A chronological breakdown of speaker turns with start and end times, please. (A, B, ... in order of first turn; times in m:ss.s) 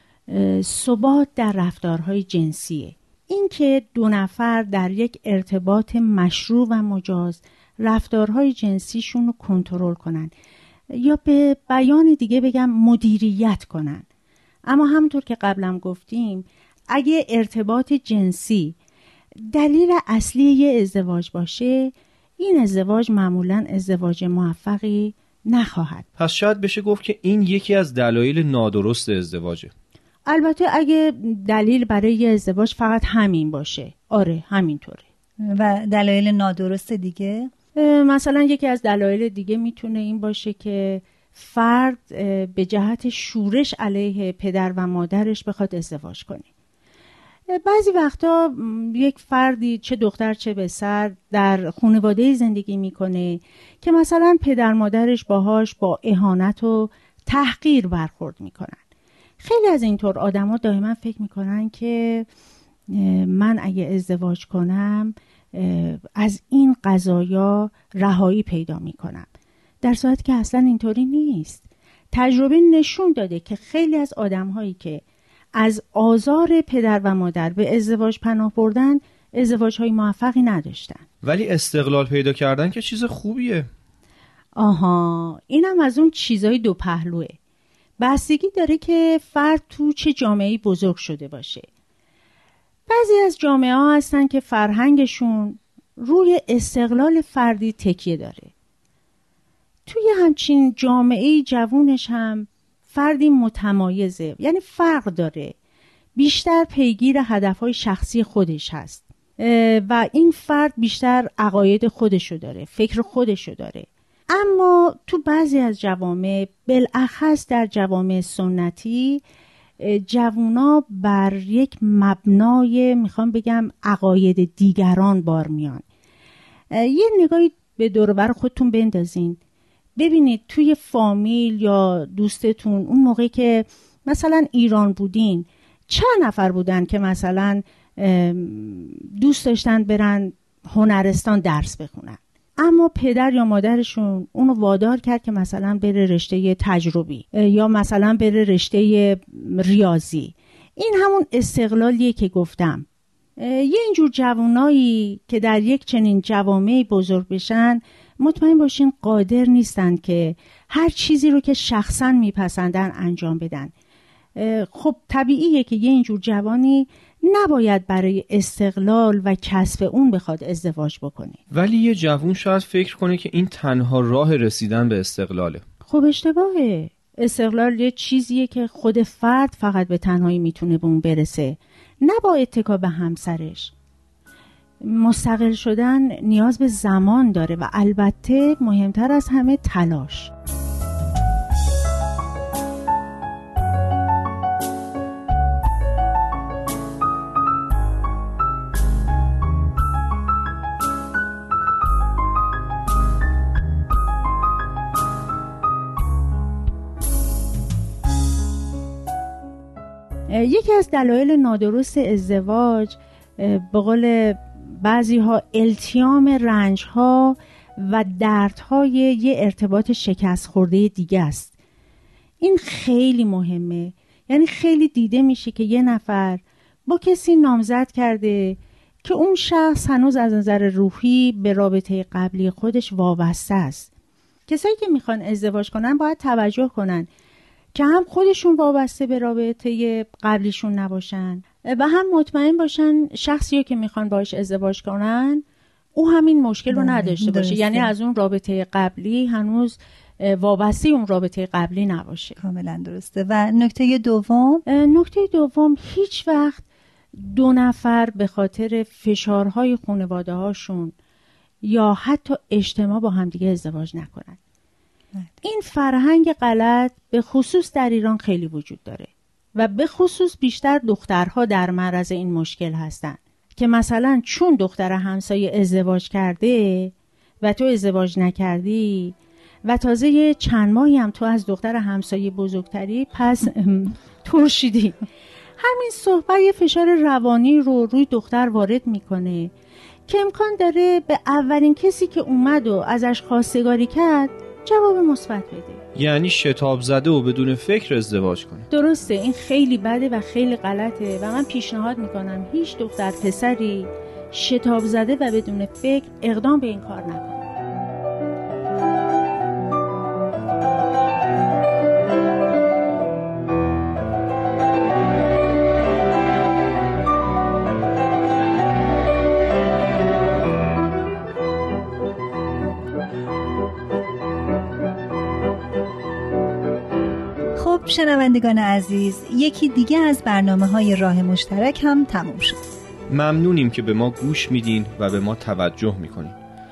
0:00.3-0:10.3 A
0:10.9-0:14.1 A
0:14.7-0:18.8 A
0:19.4-0:26.1 A
0:26.2-0:29.7 B
0:30.3-0:35.1 A
0:35.4-0:37.5 C
0:37.7-0:46.5 A
0:47.5-0:58.8 A
0:59.4-1:02.3 A
1:02.9-1:09.3 A
1:09.8-1:21.0 A
1:21.2-1:23.7 B
1:24.6-1:27.4 A
1:28.0-1:31.7 A
1:32.9-1:38.5 A
1:39.9-1:45.6 A
1:46.2-1:59.2 A
1:59.8-2:05.8 A
2:06.7-2:09.4 A
2:10.0-2:32.9 A
2:33.4-2:43.7 A
2:44.4-2:51.4 A
2:51.5-2:55.6 B
2:55.9-3:03.7 A
3:04.8-3:10.3 A
3:30.3-3:41.5 A
3:42.4-3:53.9 A
3:54.5-3:57.1 A
3:57.7-4:05.4 A
4:06.0-4:12.4 A
4:06.7-4:07.9 C
4:12.4-4:14.6 C
4:14.7-4:21.0 A
4:21.6-4:24.4 A
4:25.4-4:45.0 A
4:45.6-4:49.5 A
4:50.1-4:55.8 A
4:56.0-4:58.7 B
4:58.7-5:07.4 A
5:27.6-5:32.6 C
5:33.1-5:36.4 B